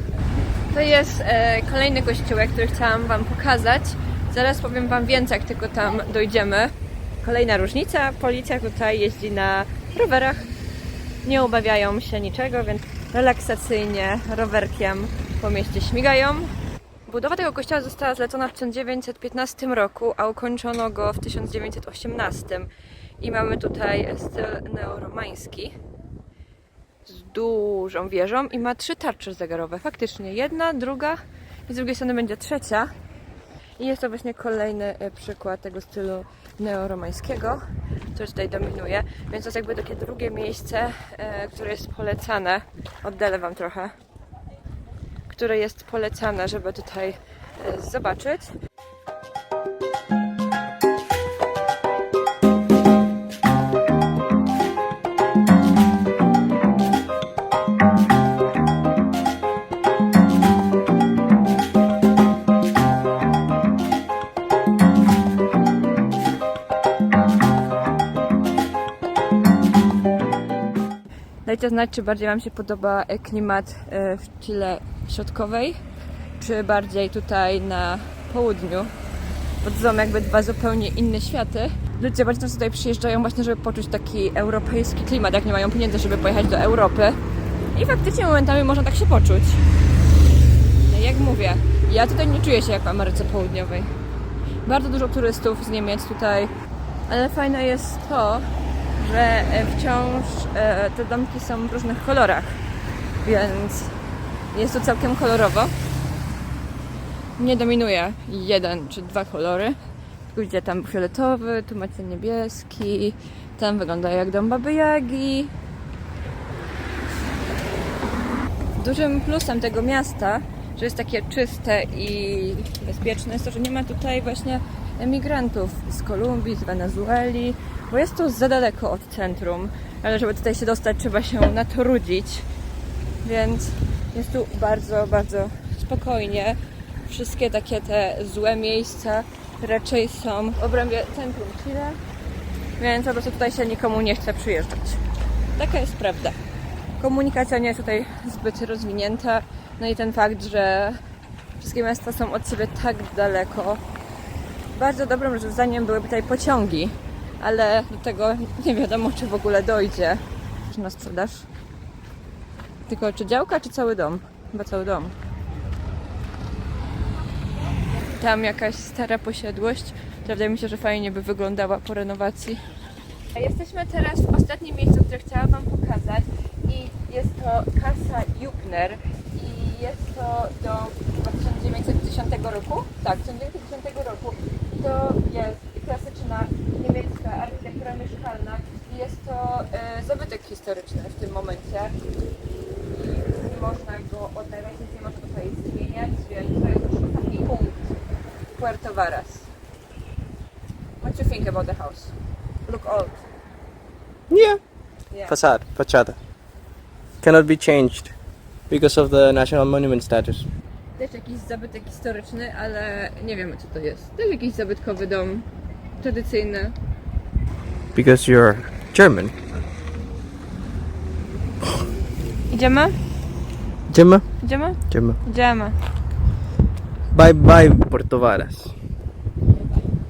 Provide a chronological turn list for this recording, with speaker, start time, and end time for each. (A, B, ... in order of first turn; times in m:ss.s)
0:00.7-0:10.5 A
0:11.2-0:16.5 A
0:17.1-0:22.7 A
0:23.2-0:25.7 A
0:27.1-0:32.9 A
0:33.8-0:37.6 A
0:38.1-0:43.9 A
0:45.3-0:48.5 A
1:11.5-1:15.8 A
1:16.4-1:18.9 A
1:19.6-1:27.2 A
1:27.7-1:29.6 A
1:30.9-1:33.9 A
1:34.6-1:36.5 A
1:37.1-1:42.6 A
1:43.2-1:44.0 A
1:44.5-1:45.7 A
1:47.4-1:49.8 A
1:50.3-1:55.5 A
1:58.8-2:12.5 A
2:13.2-2:22.0 A
2:22.8-2:25.0 A
2:25.6-2:26.4 A
2:27.0-2:31.0 A
2:31.6-2:33.8 A
2:34.7-2:41.5 A
2:42.9-2:45.2 A
2:48.1-2:52.7 A
2:53.3-3:12.0 A
3:12.9-3:17.9 A
3:18.5-3:19.5 A
3:21.0-3:22.1 A
3:22.7-3:23.2 A
3:24.3-3:24.6 B
3:25.3-3:26.2 B
3:27.2-3:28.2 B
3:28.7-3:30.5 B
3:31.0-3:35.5 A
3:36.0-3:36.8 A
3:38.0-3:39.4 B
3:42.5-3:43.0 A
3:43.9-3:45.2 B
3:44.4-3:45.8 A
3:47.1-3:48.7 B
3:49.6-3:49.9 A